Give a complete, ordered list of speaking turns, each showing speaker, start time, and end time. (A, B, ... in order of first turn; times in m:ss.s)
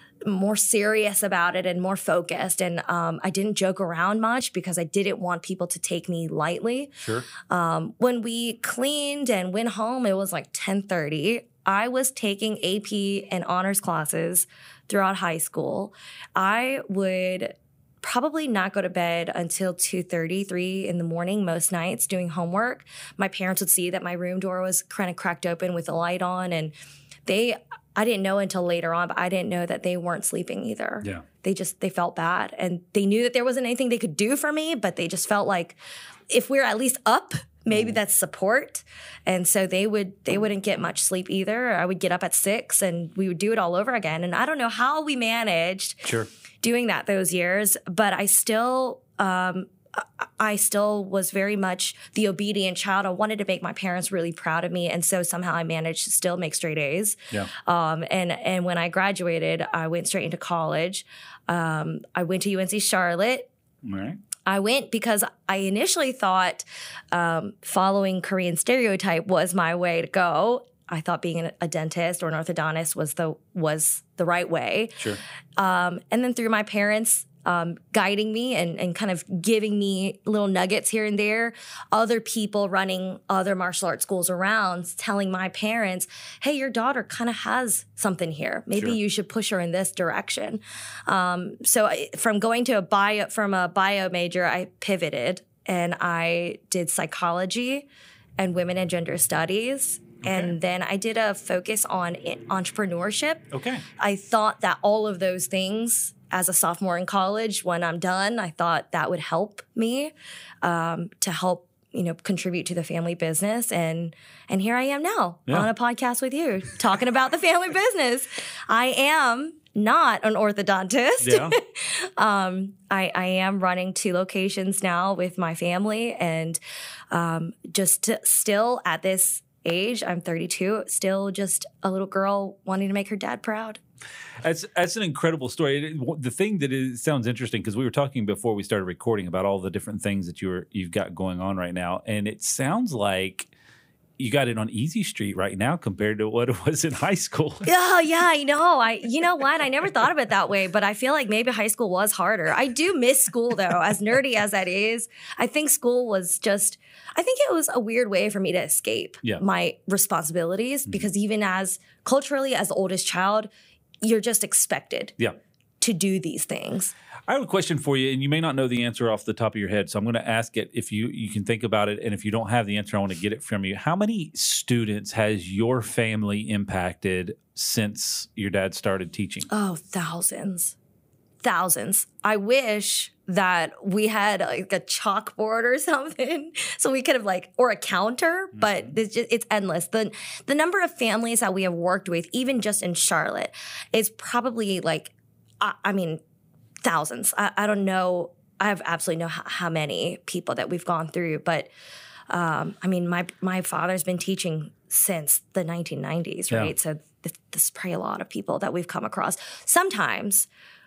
0:00.2-0:26.7 A
0:07.0-0:07.3 B
0:27.3-0:35.8 A
0:36.3-0:46.1 A
0:46.6-1:03.5 A
1:03.8-1:04.2 B
1:04.4-1:15.0 A
1:15.6-1:37.9 A
1:38.4-1:50.1 A
1:40.2-1:40.6 B
1:43.5-1:43.8 B
1:50.6-2:06.6 A
2:01.2-2:01.6 B
2:07.1-2:13.8 A
2:14.4-2:23.5 B
2:24.2-2:27.7 B
2:27.6-2:43.5 A
2:44.0-2:45.2 A
2:45.8-2:46.9 A
2:47.3-2:59.5 B
2:59.5-3:00.8 A
3:01.4-3:16.2 A
3:08.6-3:09.0 B
3:16.8-3:21.7 A
3:22.3-3:30.5 A